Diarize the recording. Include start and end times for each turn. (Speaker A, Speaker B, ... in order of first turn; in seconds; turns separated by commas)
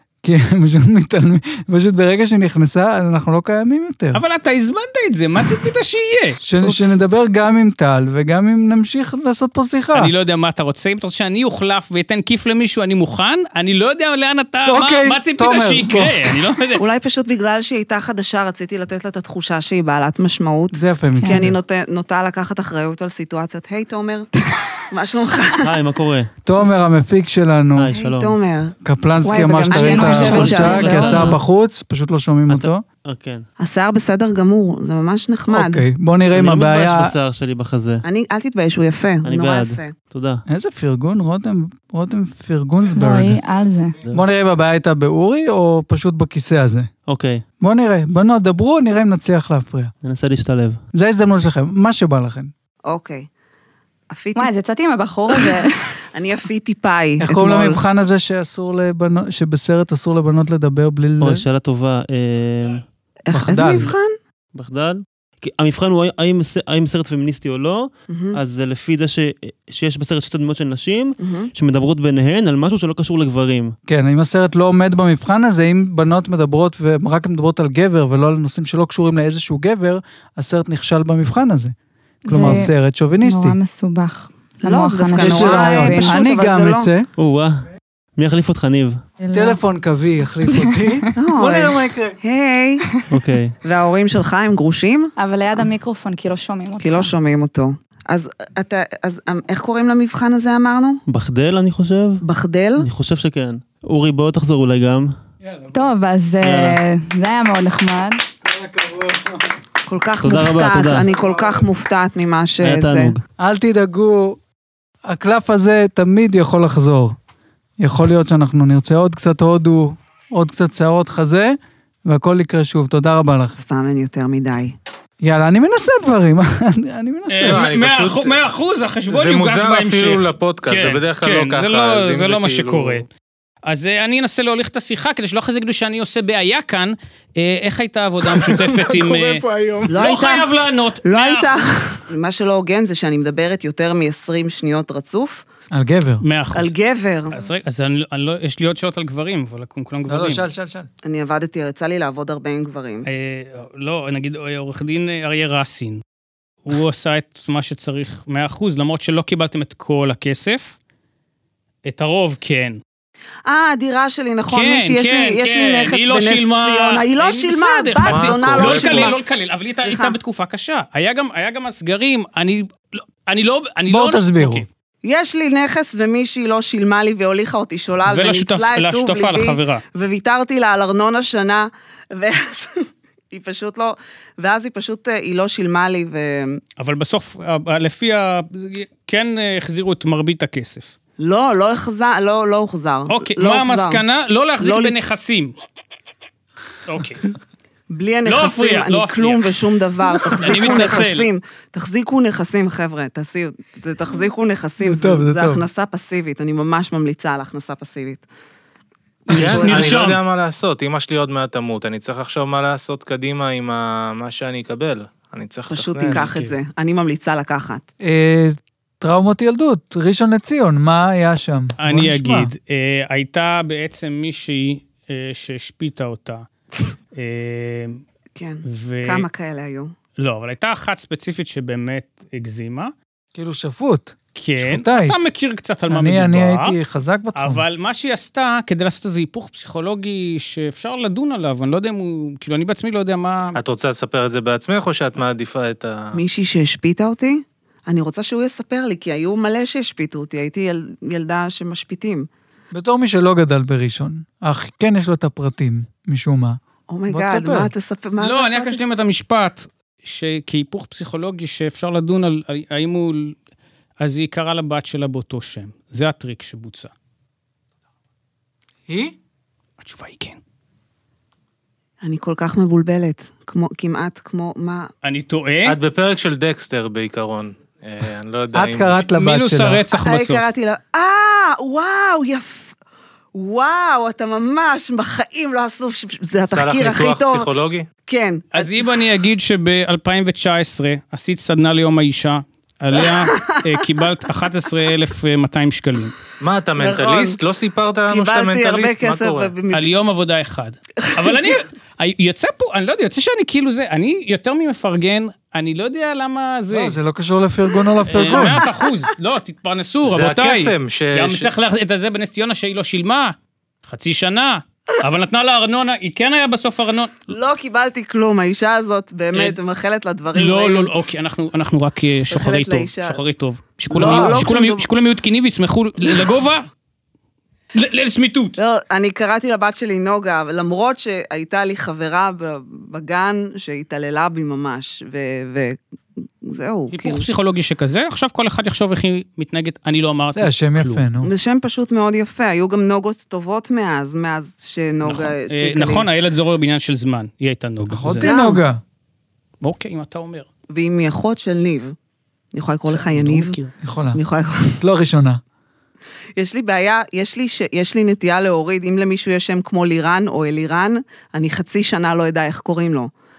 Speaker A: 0.2-4.2, Speaker B: 4.1-6.9, Speaker A: 6.4-10.1, Speaker B: 9.9-16.8, Speaker A: 14.7-16.4, Speaker C: 16.8-24.3, Speaker A: 20.7-21.5, Speaker C: 24.9-25.7, Speaker D: 25.6-26.3, Speaker A: 26.4-27.9, Speaker D: 27.8-28.4, Speaker C: 27.9-28.7, Speaker A: 28.8-32.8, Speaker E: 29.2-31.4, Speaker C: 29.7-31.2, Speaker D: 30.1-31.4, Speaker D: 32.5-33.5, Speaker C: 33.6-35.9, Speaker A: 35.5-37.1, Speaker D: 36.3-38.0, Speaker C: 38.0-39.9, Speaker D: 39.2-40.4, Speaker A: 40.5-43.4, Speaker E: 42.9-44.0, Speaker A: 44.1-46.9, Speaker D: 47.1-47.4, Speaker A: 47.6-49.9, Speaker D: 50.0-50.8, Speaker A: 50.9-52.5, Speaker C: 52.9-53.3, Speaker C: 54.1-54.5, Speaker E: 54.4-55.8, Speaker C: 55.3-57.8, Speaker A: 57.2-61.5, Speaker D: 61.2-62.8, Speaker C: 63.3-64.2, Speaker A: 63.3-63.9, Speaker D: 64.5-73.7, Speaker C: 68.1-68.4, Speaker C: 71.2-71.5, Speaker A: 73.9-81.7, Speaker E: 82.2-86.2, Speaker A: 82.3-83.6, Speaker C: 84.6-86.9, Speaker A: 85.2-87.1, Speaker D: 87.2-87.7, Speaker D: 88.2-89.0, Speaker E: 89.2-89.6, Speaker A: 89.3-92.2, Speaker E: 90.5-91.1, Speaker C: 91.2-92.9, Speaker D: 93.1-93.6, Speaker C: 93.6-95.7, Speaker E: 95.2-97.1, Speaker C: 96.8-101.0, Speaker D: 101.1-102.2, Speaker C: 102.2-102.9, Speaker D: 102.8-105.2, Speaker A: 105.4-105.9, Speaker E: 105.7-108.2, Speaker D: 106.4-106.8, Speaker A: 108.4-109.5, Speaker C: 109.8-113.2, Speaker D: 110.2-111.1, Speaker A: 111.1-111.6, Speaker D: 112.6-113.2, Speaker A: 113.4-114.4, Speaker A: 115.0-117.2, Speaker A: 117.8-123.6, Speaker C: 123.6-124.8, Speaker A: 125.2-127.7, Speaker B: 127.3-133.1, Speaker F: 127.4-128.4, Speaker F: 129.1-133.0, Speaker B: 133.7-141.6, Speaker F: 138.3-139.9, Speaker C: 139.9-145.4, Speaker A: 145.7-146.2, Speaker B: 146.2-146.7, Speaker C: 146.5-147.4, Speaker B: 147.3-150.4, Speaker A: 150.1-150.9, Speaker C: 151.0-153.1, Speaker B: 153.1-156.0, Speaker B: 156.7-160.8, Speaker B: 161.8-162.8, Speaker C: 163.5-169.2, Speaker B: 164.5-174.7, Speaker F: 168.0-169.2, Speaker C: 169.8-170.2, Speaker A: 173.9-174.7, Speaker C: 175.0-186.6, Speaker B: 178.1-179.8, Speaker B: 186.8-190.9, Speaker C: 191.2-194.0, Speaker B: 193.1-195.5, Speaker C: 194.6-194.9, Speaker B: 196.9-197.3, Speaker C: 197.9-208.2, Speaker B: 198.3-199.5, Speaker B: 200.3-201.3, Speaker A: 204.8-205.7, Speaker B: 209.3-210.2, Speaker C: 209.3-210.1, Speaker F: 209.3-216.3, Speaker C: 215.7-217.9, Speaker B: 216.1-216.6, Speaker A: 218.0-222.5, Speaker B: 221.8-226.4, Speaker B: 227.2-228.0, Speaker C: 228.3-229.9, Speaker B: 228.7-229.3, Speaker B: 230.2-232.9, Speaker A: 233.3-235.2, Speaker B: 234.4-236.8, Speaker A: 235.9-237.6, Speaker B: 237.4-243.6, Speaker F: 243.6-246.2, Speaker C: 246.1-252.3, Speaker A: 252.7-257.7, Speaker C: 256.9-258.8, Speaker B: 258.2-263.4, Speaker B: 264.0-266.9, Speaker A: 268.9-269.1, Speaker B: 269.8-270.4, Speaker C: 272.0-274.9, Speaker B: 275.0-275.8, Speaker F: 275.7-279.0, Speaker A: 278.5-279.8, Speaker B: 279.1-280.5, Speaker C: 279.9-282.8, Speaker C: 283.3-287.5, Speaker F: 286.5-287.9, Speaker C: 288.1-288.8, Speaker B: 288.5-296.1, Speaker C: 293.0-293.9, Speaker F: 296.4-299.5, Speaker C: 296.8-297.4, Speaker C: 298.1-299.9, Speaker B: 299.7-307.0, Speaker C: 301.0-301.5, Speaker A: 306.7-308.6, Speaker B: 308.1-317.3, Speaker C: 308.2-308.9, Speaker F: 310.1-311.5, Speaker C: 317.3-320.9, Speaker B: 320.4-326.6, Speaker C: 322.3-323.2, Speaker C: 323.9-324.9, Speaker A: 323.9-324.5, Speaker B: 327.7-328.6, Speaker C: 328.6-335.8, Speaker C: 336.4-337.2, Speaker B: 336.9-341.0, Speaker A: 340.3-341.3, Speaker C: 341.2-346.1, Speaker B: 345.0-348.3, Speaker A: 347.9-348.8, Speaker C: 348.2-348.6, Speaker B: 349.6-350.5, Speaker C: 350.7-352.0, Speaker C: 352.5-353.6, Speaker B: 352.9-353.7, Speaker A: 353.8-354.2, Speaker C: 354.1-354.8, Speaker A: 354.8-355.4, Speaker C: 356.4-363.1